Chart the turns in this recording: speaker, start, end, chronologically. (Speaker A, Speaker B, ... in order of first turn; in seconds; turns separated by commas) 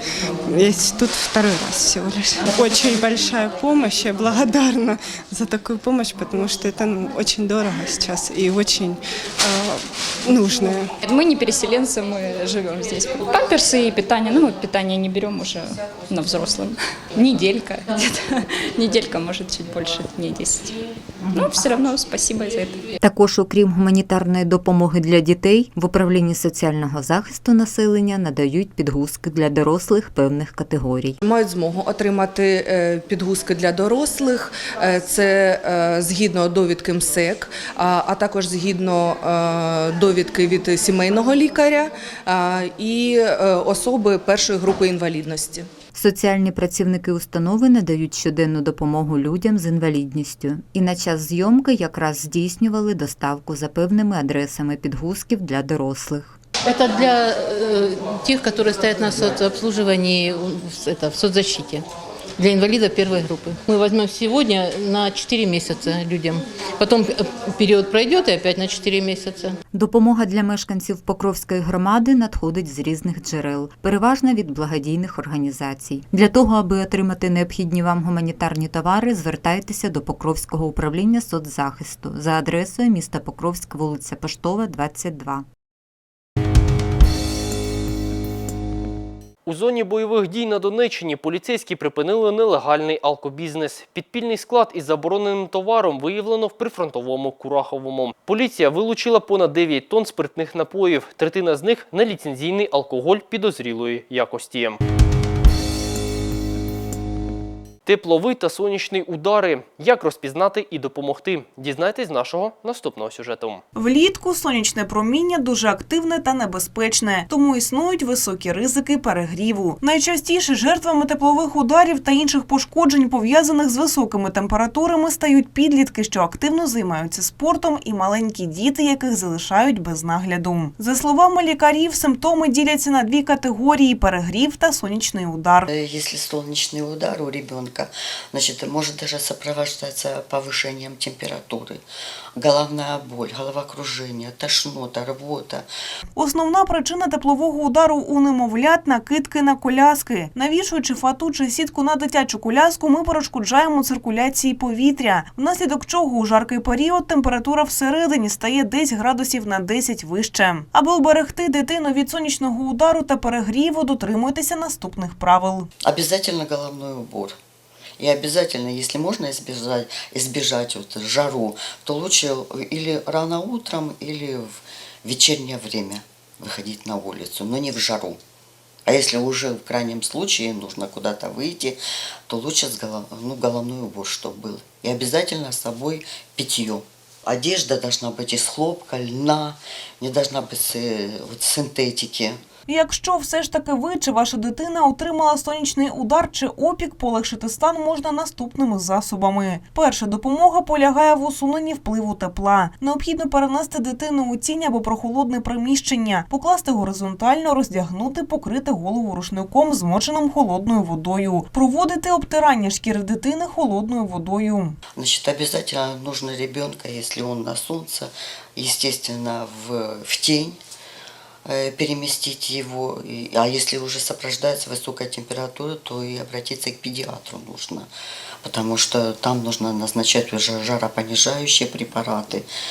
Speaker A: 0.5-10.9, Speaker B: 11.0-20.7, Speaker B: 21.3-22.8, Speaker C: 23.0-31.2, Speaker D: 31.2-45.6, Speaker C: 45.9-56.4, Speaker E: 56.6-61.9, Speaker E: 62.4-69.5, Speaker C: 69.7-85.4, Speaker F: 89.5-104.8, Speaker F: 107.8-113.6, Speaker G: 113.7-135.6, Speaker H: 135.7-141.8, Speaker H: 142.3-145.7, Speaker G: 146.2-165.7, Speaker H: 165.8-167.4, Speaker H: 168.0-178.2, Speaker H: 178.8-192.4, Speaker G: 192.7-214.8, Speaker H: 214.9-220.6, Speaker H: 221.4-227.9, Speaker H: 228.4-232.4